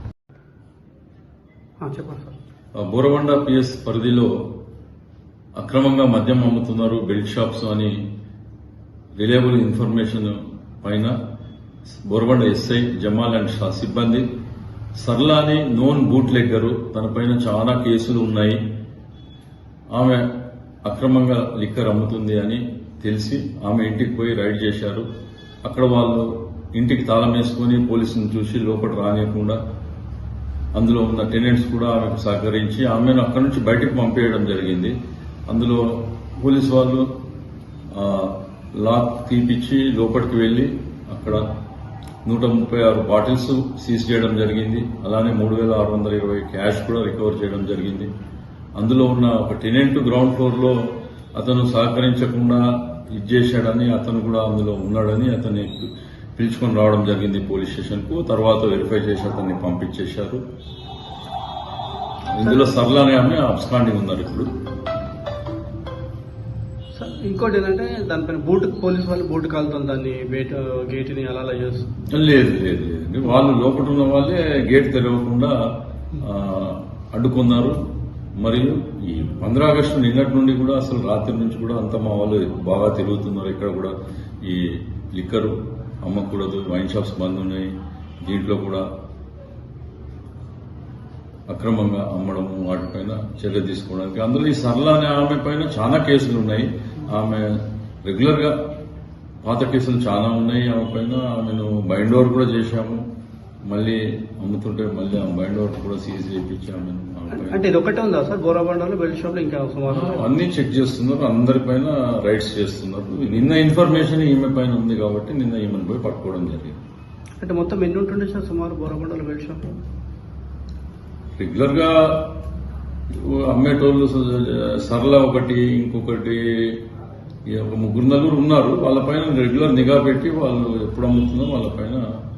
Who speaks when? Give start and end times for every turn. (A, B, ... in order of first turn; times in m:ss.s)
0:01.8-0:02.3 A
0:02.8-0:04.3 B
0:05.6-0:07.9 B
0:09.2-0:11.1 B
0:12.0-0:14.2 B
0:15.0-0:18.6 B
0:20.0-0:20.2 B
0:20.9-0:25.1 B
0:25.6-0:29.6 B
0:30.8-0:34.9 B
0:35.5-0:37.1 B
0:37.9-0:41.4 B
0:42.2-0:48.1 B
0:48.8-0:50.8 B
0:51.4-1:00.4 B
1:02.4-1:04.5 B
1:02.4-1:02.7 A
1:07.0-1:11.9 A
1:12.1-1:15.6 B
1:16.2-1:17.8 B
1:18.4-1:23.9 B
1:24.4-1:25.5 B
1:26.0-1:27.7 B
1:28.2-1:28.9 B
1:31.5-1:37.5 B
1:38.1-1:38.6 B
1:39.4-1:43.0 B
1:43.7-1:47.6 B
1:47.3-1:50.3 A
1:49.9-1:56.8 B
1:57.4-1:59.6 A
2:01.4-2:02.2 B
2:03.1-2:06.8 B
2:07.5-2:12.0 B